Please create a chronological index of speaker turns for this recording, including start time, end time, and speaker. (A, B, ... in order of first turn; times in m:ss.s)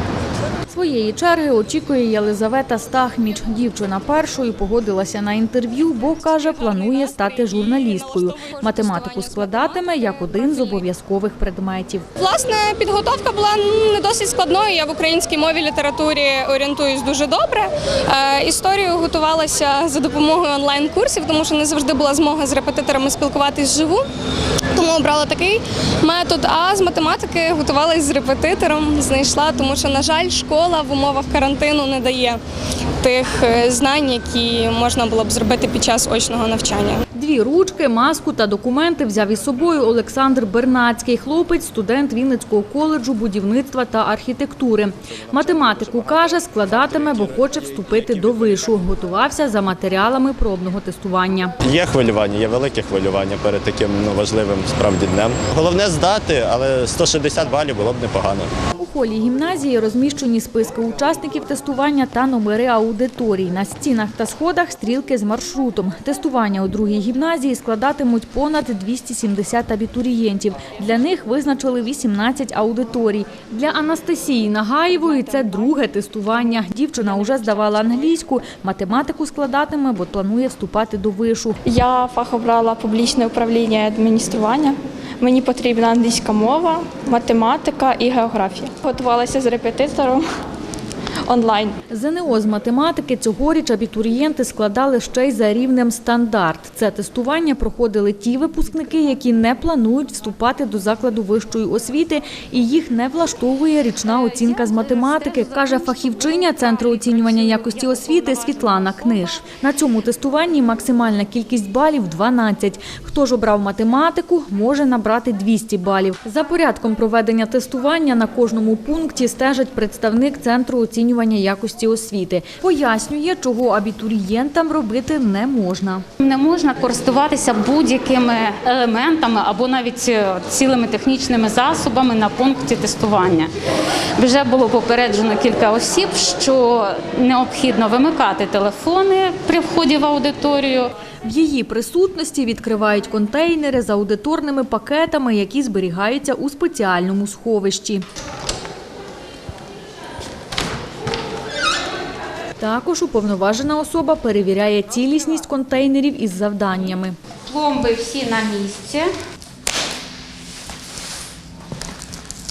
0:00.7-0:12.0 A
0:06.3-0:10.9 B
0:12.2-0:24.0 B
0:24.7-0:32.4 B
0:33.0-0:37.0 B
0:37.1-0:51.5 A
0:51.6-0:58.5 C
0:58.8-1:21.6 A
1:21.7-1:30.2 D
1:22.0-1:24.7 B
1:25.3-1:29.6 B
1:31.3-1:31.8 D
1:31.9-2:06.0 A
1:44.0-1:49.3 E
2:06.2-2:13.5 E
2:14.2-2:20.9 E
2:21.2-2:28.0 A
2:32.6-2:37.2 A
2:37.4-2:39.1 E